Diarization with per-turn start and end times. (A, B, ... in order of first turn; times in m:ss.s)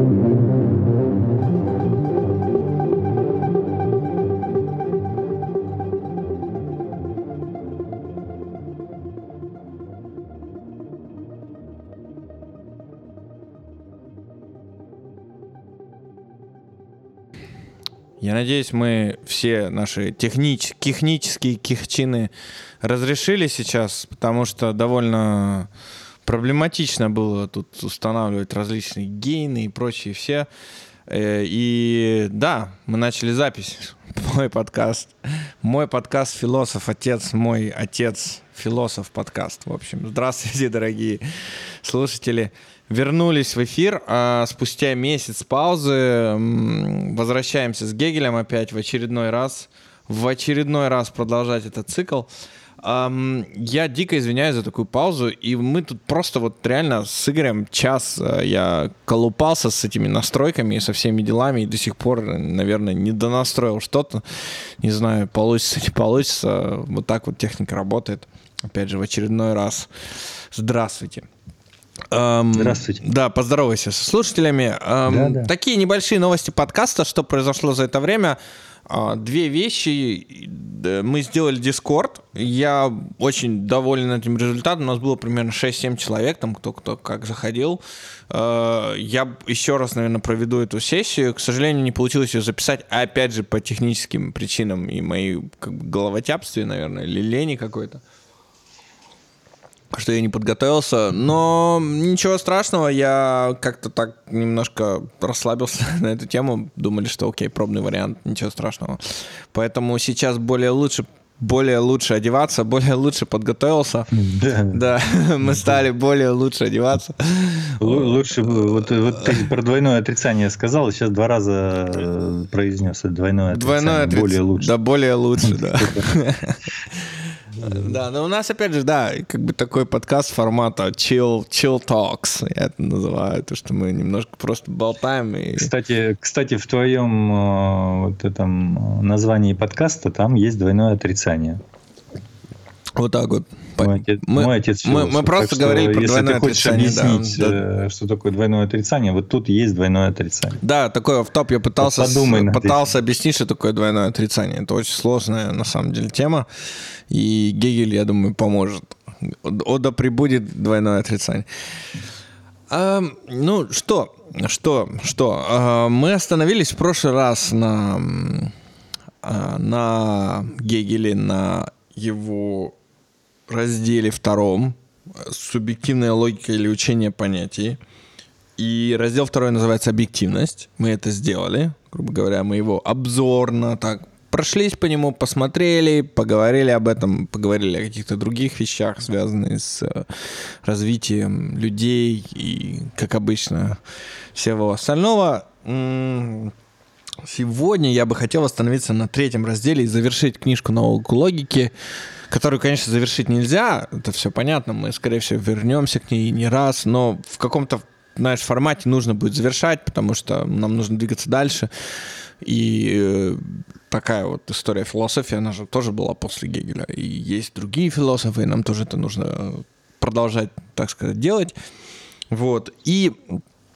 0:18.2-0:22.3 A
0:22.8-0:25.7 A
0:26.2-0:30.5 A
0:31.1-0:41.2 A
0:41.8-0:52.3 A
0:52.8-1:04.2 A
1:04.8-1:09.9 A
1:10.5-1:11.3 A
1:12.1-1:38.0 A
1:12.6-1:13.0 B
1:15.1-1:15.5 B
1:39.9-1:54.1 A
1:54.1-1:54.8 B
1:54.7-1:59.4 A
1:55.4-1:55.8 B
1:57.8-2:04.7 B
2:03.5-2:15.7 A
2:05.5-2:06.1 B
2:07.6-2:08.0 B
2:15.6-2:21.6 B
2:23.0-2:27.6 A
2:23.8-2:30.6 B
2:30.6-2:36.5 A
2:31.8-2:32.8 B
2:37.1-2:41.5 A
2:42.7-2:48.5 A
2:49.2-2:52.8 A
2:53.5-2:57.8 A
2:58.6-3:13.8 A
3:14.4-3:16.5 A
3:17.2-3:21.7 A
3:22.3-3:31.7 A
3:32.4-3:41.6 A
3:42.3-3:43.4 A